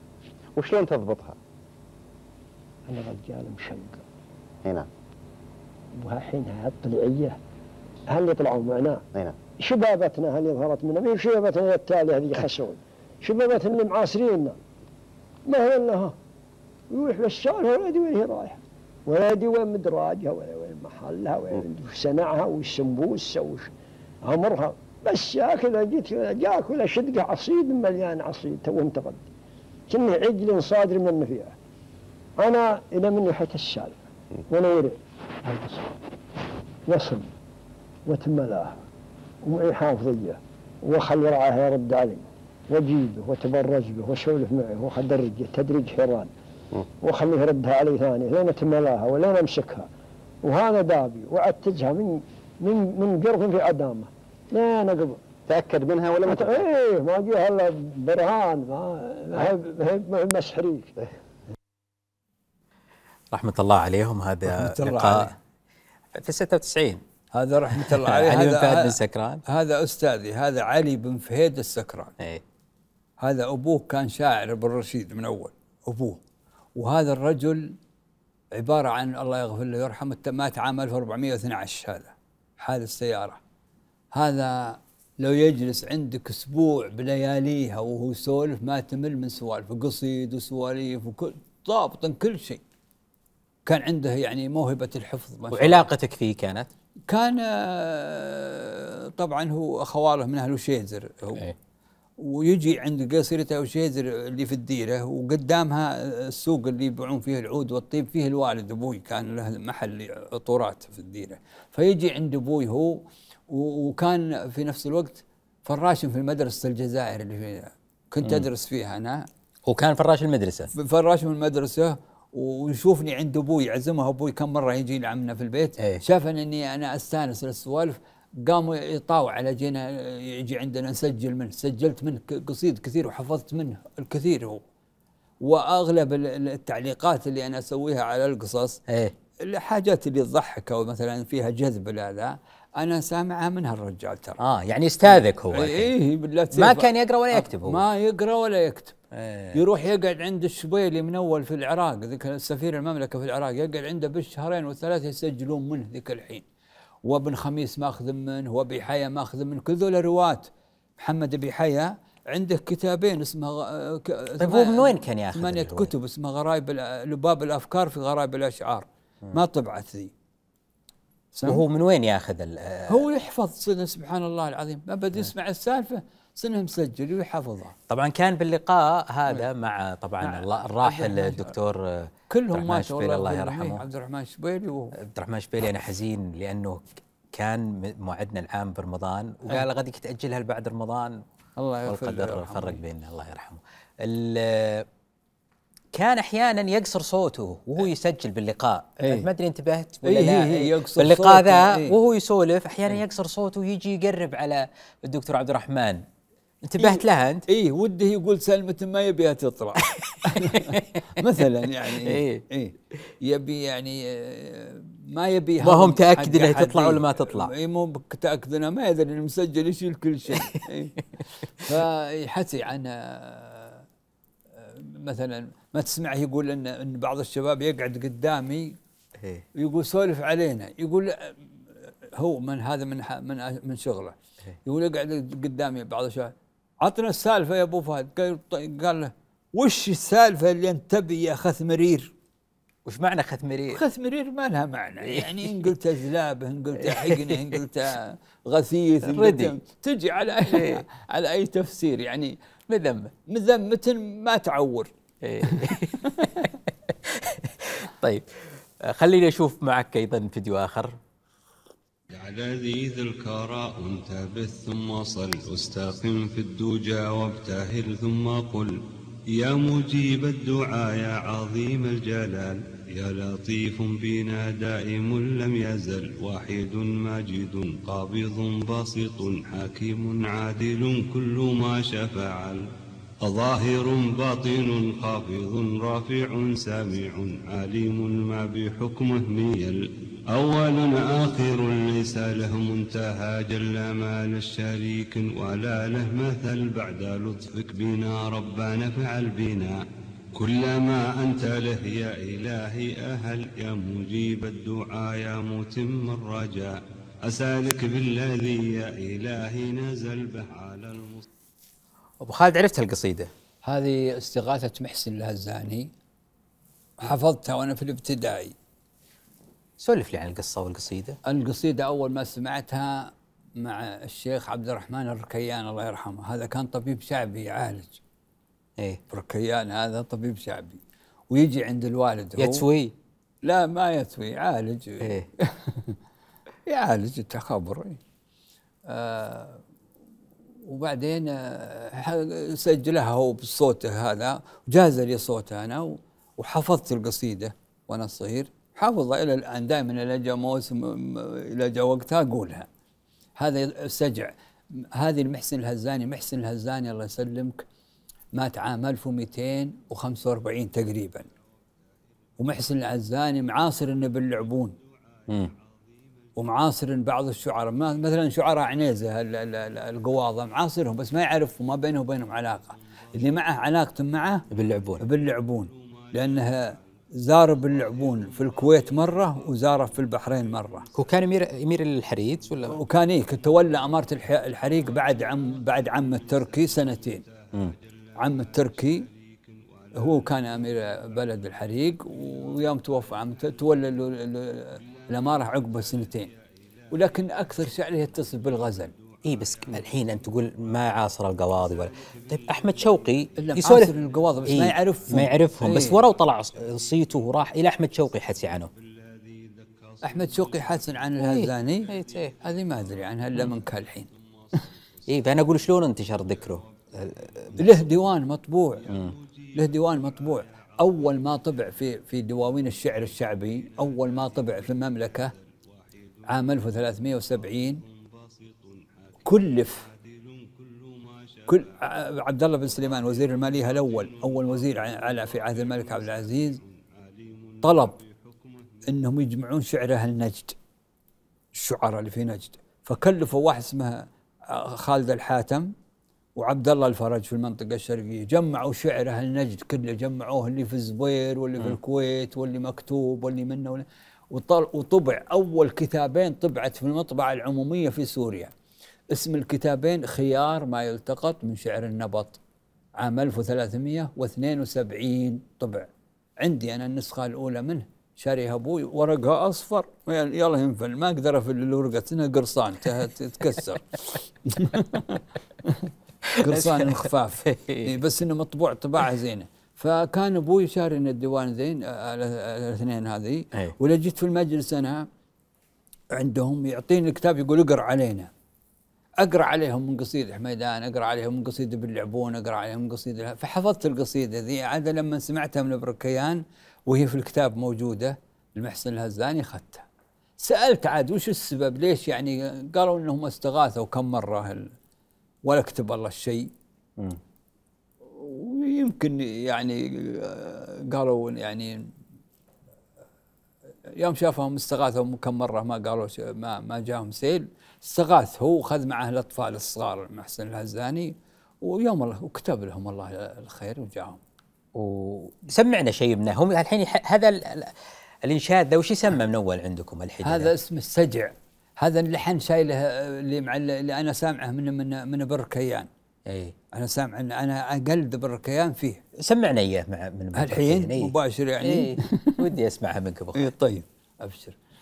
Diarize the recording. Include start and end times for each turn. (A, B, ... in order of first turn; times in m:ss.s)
0:00.6-0:01.4 A
0:02.9-0:04.0 B
0:06.0-0:07.4 B
0:08.1-0:09.0 B
0:09.6-0:14.6 B
0:15.5-0:16.1 B
0:16.9-0:23.7 B
0:24.2-0:29.2 B
0:29.9-0:31.5 B
0:32.4-0:34.0 B
0:34.5-0:35.9 B
0:36.9-0:37.3 B
0:38.1-0:38.8 B
0:39.4-0:46.3 B
0:47.0-0:49.9 B
0:50.4-0:55.2 B
0:55.5-0:56.6 A
0:56.2-1:00.9 B
1:03.3-1:05.3 C
1:04.5-1:05.3 D
1:06.1-1:07.0 C
1:07.3-1:12.1 D
1:07.7-1:09.4 C
1:13.2-1:16.2 D
1:16.8-1:17.8 D
1:18.6-1:23.4 D
1:24.1-1:32.6 D
1:33.7-1:35.9 D
1:35.5-1:36.7 C
1:37.1-1:41.4 D
1:42.2-1:59.3 D
1:59.7-2:00.7 C
2:00.7-2:14.6 D
2:15.4-2:18.8 D
2:18.9-2:19.1 C
2:19.4-2:24.4 D
2:24.4-2:25.9 C
2:25.1-2:29.0 D
2:26.5-2:27.8 C
2:29.1-2:29.6 C
2:29.6-2:36.4 D
2:37.0-2:50.1 D
2:44.4-2:45.9 C
2:51.3-2:51.6 D
2:51.4-2:53.0 C
2:52.9-2:57.8 D
2:57.9-3:03.8 C
3:00.2-3:01.6 D
3:02.3-3:05.0 D
3:05.0-3:11.2 C
3:11.6-3:12.8 D
3:11.9-3:14.9 C
3:15.9-3:26.0 C
3:19.0-3:19.3 D
3:20.0-3:22.0 D
3:26.6-3:27.4 C
3:26.8-3:41.0 D
3:29.8-3:31.2 C
3:31.8-3:32.4 C
3:35.6-3:37.5 C
3:40.3-3:40.6 C
3:41.5-3:43.8 D
3:44.6-3:48.8 D
3:49.2-3:49.4 C
3:49.6-3:54.1 D
3:54.6-4:02.1 D
4:02.8-4:03.8 C
4:03.7-4:12.4 D
4:05.0-4:05.7 C
4:06.8-4:07.6 C
4:09.1-4:09.6 C
4:10.5-4:10.8 C
4:12.7-4:13.1 C
4:13.3-4:14.9 D
4:15.2-4:21.0 C
4:15.5-4:16.5 D
4:22.1-4:28.8 E
4:29.3-4:42.7 E
4:43.2-4:59.8 E
5:00.4-5:11.2 E
5:12.2-5:13.3 C
5:13.6-5:15.9 D
5:17.0-5:18.6 D
5:19.8-5:21.2 C
5:21.3-5:28.0 D
5:29.1-5:32.7 D
5:32.4-5:32.9 C
5:33.4-5:36.0 D
5:35.0-5:35.3 C
5:36.7-5:38.0 D
5:38.9-5:39.6 D
5:40.7-5:52.7 D
5:53.4-5:57.6 D
5:58.4-6:01.3 D
6:02.4-6:04.8 D
6:06.4-6:14.4 D
6:14.5-6:15.0 C
6:15.0-6:20.9 D
6:17.7-6:19.4 E
6:20.9-6:22.8 C
6:22.7-6:27.2 D
6:25.8-6:30.7 E
6:28.2-6:29.1 D
6:30.0-6:36.3 D
6:34.8-6:35.4 E
6:36.9-6:38.9 D
6:37.0-6:40.0 E
6:39.2-6:43.9 C
6:41.7-6:43.1 E
6:43.4-6:46.0 D
6:44.5-6:48.7 C
6:48.7-6:51.0 E
6:50.0-6:54.1 D
6:51.2-6:52.3 C
6:51.8-6:52.5 E
6:53.6-6:55.4 E
6:55.1-6:57.7 C
6:56.3-6:57.9 E
6:57.6-6:58.8 D
6:58.9-7:01.3 E
6:59.6-7:05.3 D
7:03.7-7:05.3 E
7:05.8-7:12.0 E
7:06.3-7:07.8 D
7:09.2-7:09.8 D
7:11.5-7:16.6 D
7:12.6-7:18.9 E
7:17.6-7:18.0 D
7:18.9-7:20.6 D
7:21.6-7:25.7 D
7:26.4-7:38.5 D
7:39.1-7:42.4 D
7:43.0-7:45.9 D
7:46.4-7:55.9 D
7:56.2-7:57.9 C
7:56.4-8:05.1 D
8:06.1-8:08.3 D
8:09.2-8:19.9 D
8:20.4-8:24.7 D
8:25.5-8:26.5 D
8:28.1-8:31.8 D
8:34.0-8:41.1 D
8:41.6-8:44.2 D
8:44.8-8:50.5 C
8:50.2-8:55.9 D
8:56.3-8:56.6 C
8:56.7-8:59.0 D
8:59.2-9:03.5 C
9:00.4-9:02.4 D
9:03.4-9:04.6 D